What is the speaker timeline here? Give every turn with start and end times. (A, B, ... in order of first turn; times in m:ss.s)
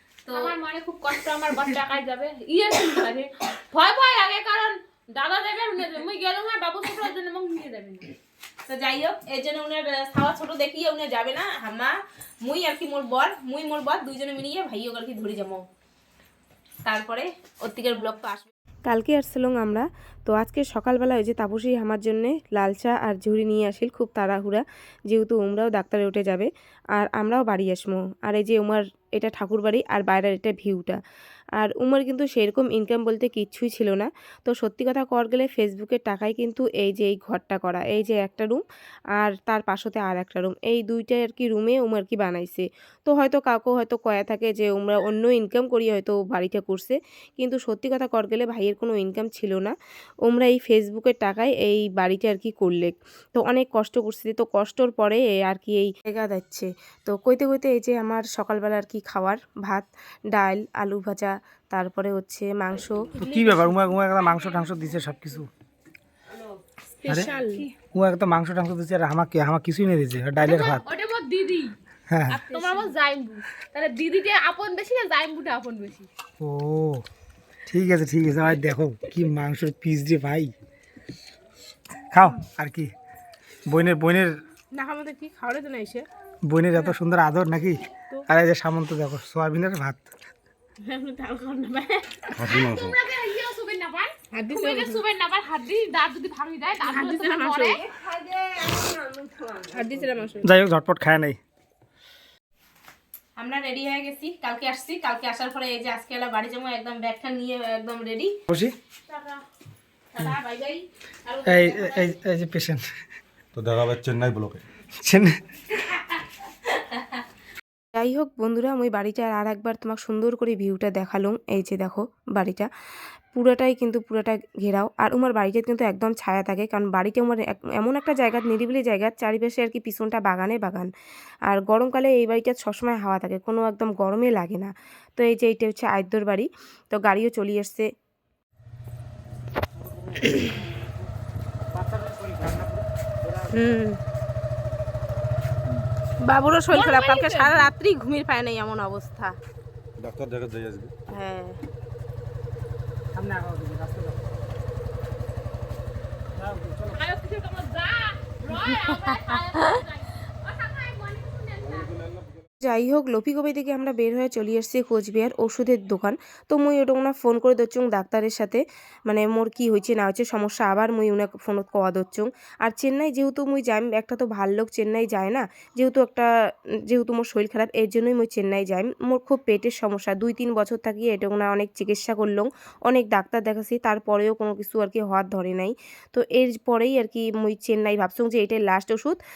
0:00.3-0:00.5 A
0:00.3-0:08.2 B
0:08.7-0:15.6 A
0:16.8-0:18.5 A
0:18.9-0:31.0 C
0:31.6-0:38.6 C
0:39.2-0:49.7 C
0:50.3-1:03.1 C
1:03.2-1:05.5 D
1:04.1-1:05.2 B
1:07.0-1:07.7 A
1:07.9-1:10.8 D
1:10.4-1:11.8 B
1:12.1-1:12.4 D
1:12.3-1:16.1 B
1:12.5-1:12.9 A
1:16.4-1:17.0 D
1:17.7-1:20.5 D
1:22.1-1:22.9 D
1:23.7-1:24.3 D
1:24.7-1:26.0 A
1:26.5-1:30.0 D
1:30.8-1:32.4 A
1:32.4-1:33.0 E
1:32.4-1:37.8 B
1:34.3-1:35.0 A
1:36.8-1:40.5 A
1:40.4-1:41.4 D
1:43.4-1:48.3 A
1:49.1-1:49.4 A
1:50.1-1:52.2 A
1:51.5-1:52.8 D
1:53.5-1:54.6 E
1:55.0-1:55.4 D
1:58.0-2:02.7 C
2:03.4-2:10.9 C
2:11.5-2:17.9 C
2:21.8-2:23.6 D
2:23.5-2:24.0 A
2:26.2-2:29.4 A
2:26.7-2:27.7 B
2:30.0-2:30.9 E
2:31.1-2:31.6 A
2:33.1-2:34.2 D
2:36.4-2:37.0 D
2:36.9-2:42.2 B
2:42.6-2:56.3 C
2:56.9-3:09.2 C